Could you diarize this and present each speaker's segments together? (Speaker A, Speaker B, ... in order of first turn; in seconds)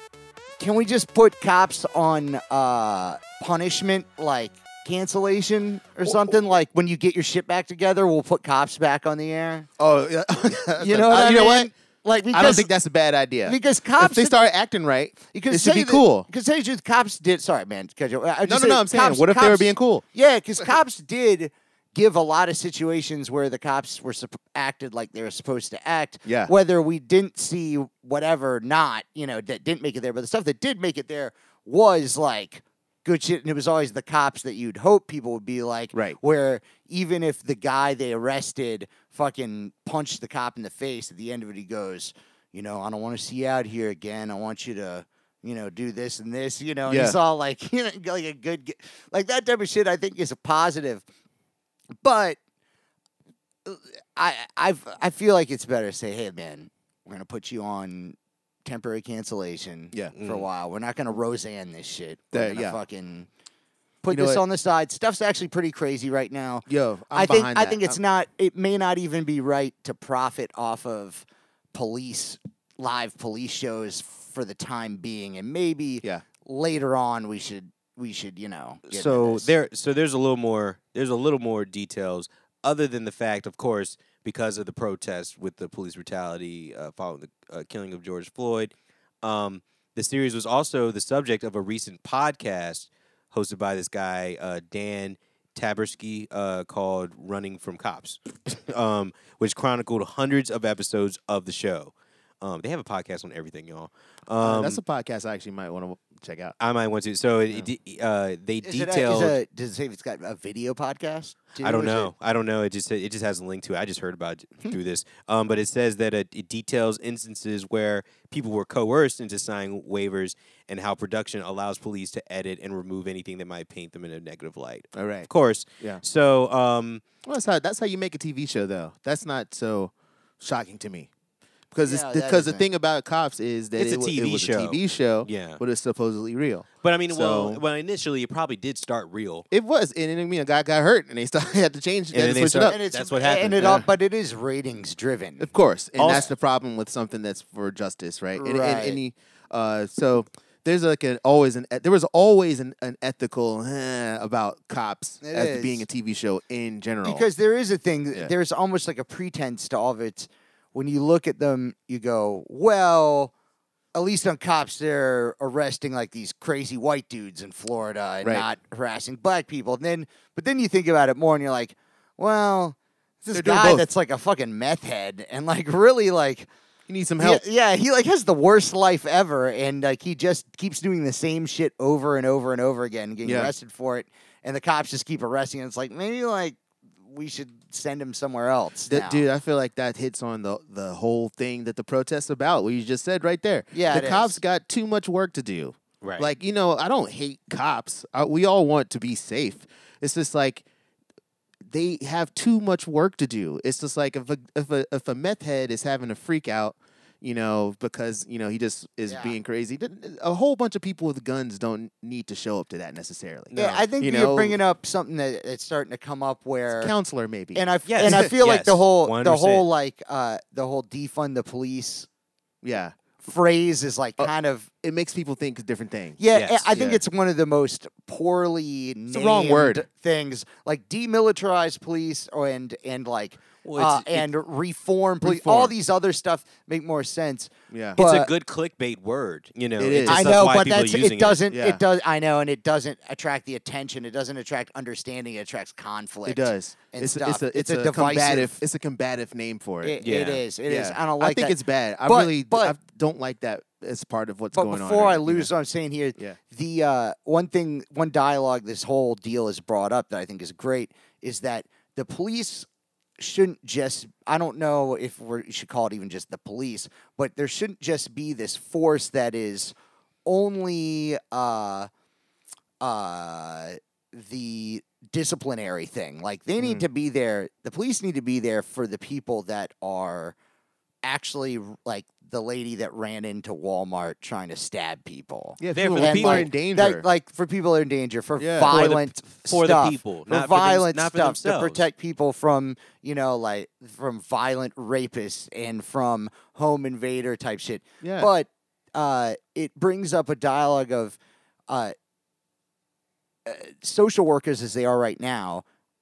Speaker A: 0.6-9.7, 10.8-12.7, 13.4-14.4, 15.3-51.0, 52.0-52.4, 53.7-63.3, 64.0-79.5, 108.6-112.1, 131.8-132.7, 142.7-145.5, 148.4-149.0, 155.2-155.9, 157.1-163.3, 163.9-176.5, 177.2-189.2, 193.7-194.4, 209.1-209.4, 213.5-216.9, 217.6-222.1, 223.2-224.7, 226.2-238.3, 240.1-248.6, 249.8-252.8, 254.6-262.7, 263.2-269.7, 270.3-271.9, 272.8-280.4, 281.0-301.2, 301.7-301.9, 303.5-305.6
Speaker B: 9.8-11.7, 12.3-16.3, 18.4-20.0, 26.2-26.5, 35.9-36.2, 46.9-47.2, 62.3-62.8, 64.1-64.4, 66.7-68.0, 104.4-106.5, 125.0-125.3, 127.2-131.1, 131.7-137.6, 139.5-142.8, 143.6-143.9, 145.4-157.2, 173.3-173.9, 176.9-177.4, 183.2-183.5, 188.9-200.6, 201.7-214.6, 216.8-218.3, 222.6-222.9, 224.8-226.2, 226.7-227.0, 229.1-229.8, 235.2-235.7, 237.7-238.0, 239.8-240.4, 241.5-241.8, 246.3-250.0, 250.7-255.5, 276.6-276.9, 285.6-287.1, 288.4-288.8, 298.0-298.3
Speaker C: 60.2-60.5, 78.9-104.8, 106.6-109.4, 111.6-127.0, 133.8-135.6, 136.8-139.4, 142.1-143.8, 146.0-146.3, 196.0-196.3, 217.9-219.7, 226.3-226.7, 233.6-234.3, 238.0-241.4, 250.0-250.4, 285.8-286.5, 288.7-291.9